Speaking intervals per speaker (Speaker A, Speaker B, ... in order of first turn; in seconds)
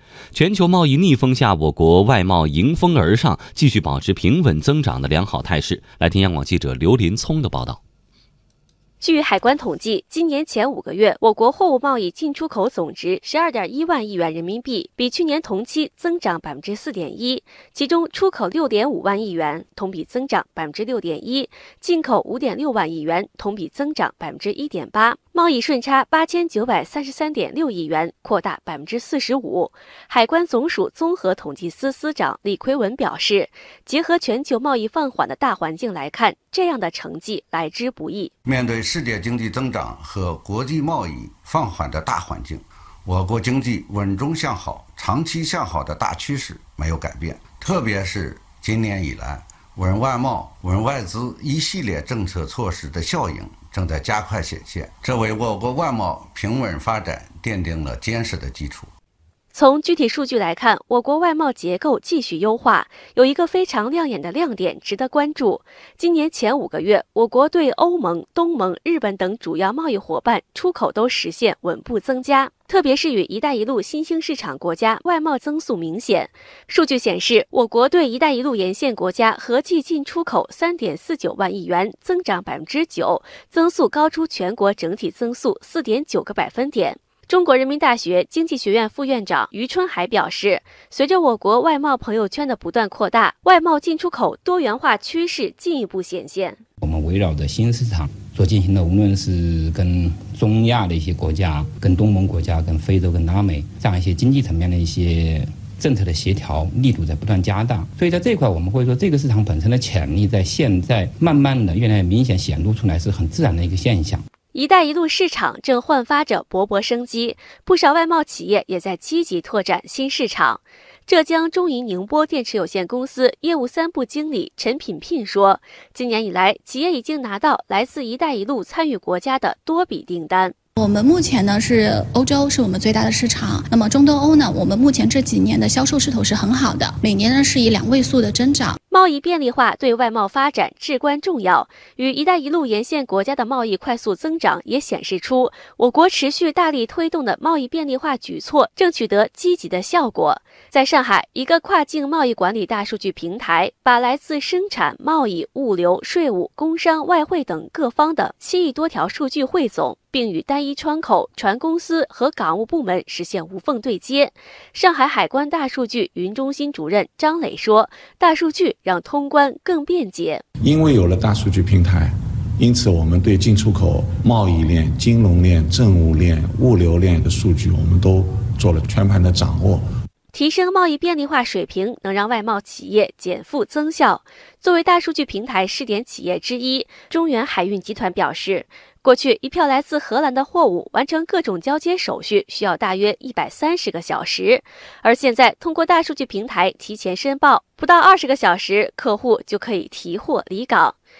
Speaker A: 0.3-7.8
Speaker B: 9.0-38.3, 59.5-96.6, 114.5-130.6, 138.9-170.4, 180.3-201.0
Speaker C: 38.5-58.9
Speaker D: 96.8-114.2
Speaker E: 130.8-138.8
Speaker F: 170.6-179.8